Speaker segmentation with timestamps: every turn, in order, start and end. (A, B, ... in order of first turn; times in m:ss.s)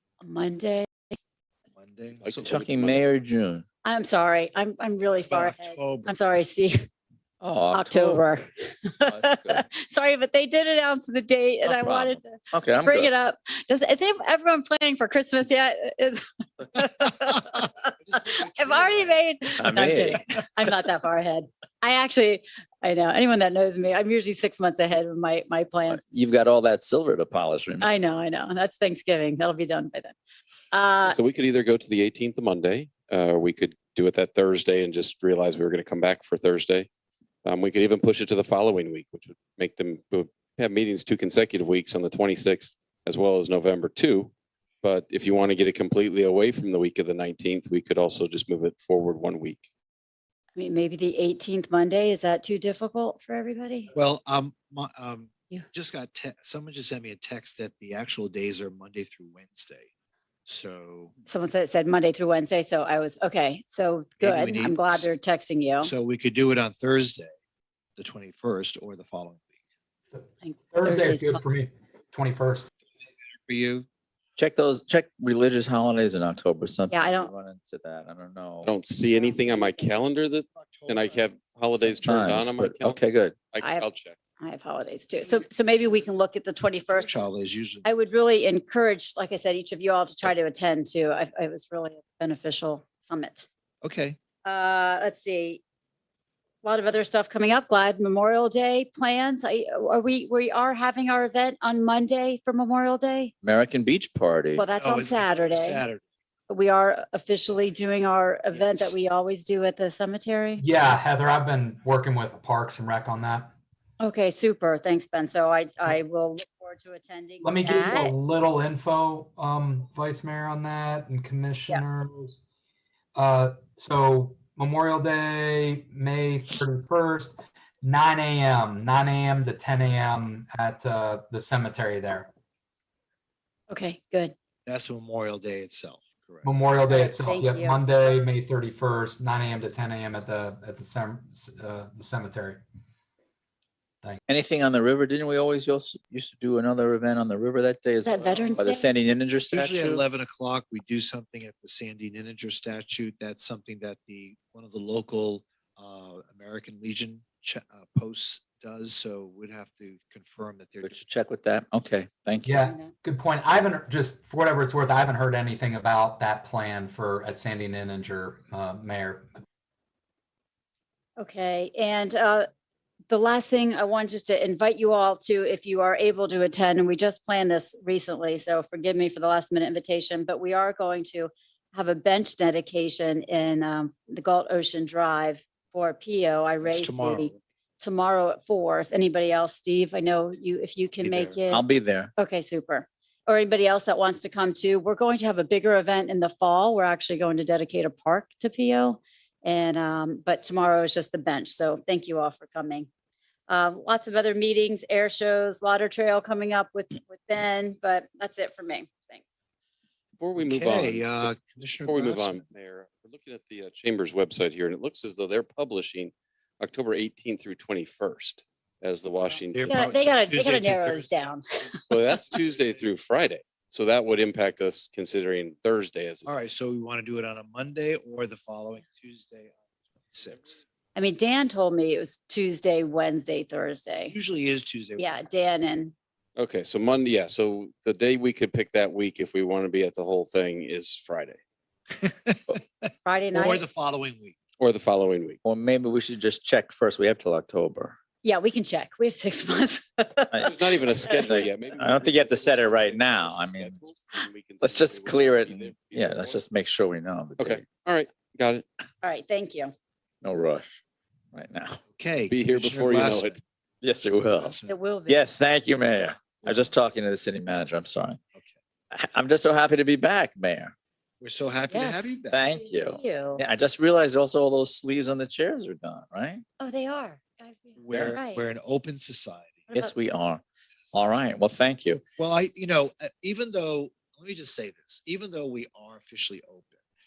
0:00.2-0:01.2 A
0:01.7-0:02.6 B
0:02.2-0:03.0 C
0:02.4-0:03.6 D
0:03.8-0:06.9 A
0:05.2-0:06.1 B
0:07.4-0:08.2 D
0:07.7-0:26.0 A
0:09.0-0:09.6 D
0:11.6-0:13.1 D
0:18.0-0:19.2 B
0:19.6-0:20.4 D
0:25.9-0:27.9 D
0:27.8-0:30.2 A
0:30.7-0:31.2 A
0:31.0-0:36.9 C
0:37.4-0:49.7 C
0:50.6-0:53.9 A
0:53.9-0:59.9 B
1:00.4-1:01.1 B
1:01.3-1:05.9 A
1:04.2-1:05.1 B
1:05.8-1:07.3 B
1:08.0-1:09.4 B
1:10.1-1:12.7 E
1:10.4-1:11.4 A
1:13.4-1:13.9 B
1:14.4-1:18.7 D
1:16.9-1:17.3 A
1:18.6-1:24.2 C
1:19.1-1:19.9 A
1:20.6-1:22.2 B
1:22.0-1:23.3 D
1:23.6-1:23.8 A
1:24.4-1:27.3 A
1:26.9-1:27.9 B
1:27.8-1:33.5 A
1:33.8-1:34.2 B
1:34.4-1:35.6 A
1:36.6-1:43.3 A
1:43.4-1:44.6 D
1:44.6-1:45.8 A
1:44.8-1:46.0 B
1:46.5-1:50.6 A
1:48.5-1:48.9 B
1:50.6-1:53.5 E
1:54.0-1:58.1 A
1:57.4-2:02.4 E
2:03.1-2:12.3 E
2:13.7-2:14.3 A
2:14.6-2:16.7 B
2:16.4-2:22.6 E
2:16.9-2:18.1 A
2:24.3-2:30.0 D
2:28.0-2:28.9 A
2:29.5-2:41.0 B
2:40.8-2:42.5 D
2:42.4-2:49.3 E
2:42.5-2:42.9 A
2:51.2-2:52.5 A
2:53.1-3:11.6 A
3:06.6-3:07.4 B
3:11.0-3:11.4 B
3:11.5-3:12.1 D
3:12.2-3:22.9 A
3:23.5-3:29.3 A
3:30.2-3:31.1 C
3:30.4-3:32.4 B
3:31.8-3:39.8 C
3:39.5-3:41.3 B
3:39.7-3:41.4 A
3:41.9-3:46.3 C
3:46.2-3:50.6 B
3:50.9-3:54.2 A
3:54.1-3:55.2 B
3:55.0-3:55.9 A
3:56.4-4:01.4 C
4:02.0-4:04.4 B
4:03.0-4:03.6 A
4:04.6-4:05.4 C
4:05.4-4:08.0 D
4:08.2-4:11.5 A
4:10.4-4:16.4 C
4:11.0-4:13.8 D
4:14.6-4:17.6 D
4:17.4-4:18.6 C
4:19.0-4:19.7 A
4:20.2-4:20.8 D
4:21.3-4:21.8 D
4:21.9-4:23.4 B
4:22.3-4:23.4 C
4:23.8-4:28.2 D
4:24.0-4:24.7 B
4:24.7-4:25.3 A
4:28.9-4:30.7 D
4:31.2-4:32.4 B
4:31.7-4:33.4 A
4:32.3-4:36.4 D
4:36.6-4:38.4 A
4:37.8-4:39.7 B
4:37.9-4:38.2 D
4:39.7-4:40.4 D
4:40.9-4:42.0 D
4:42.2-4:46.8 B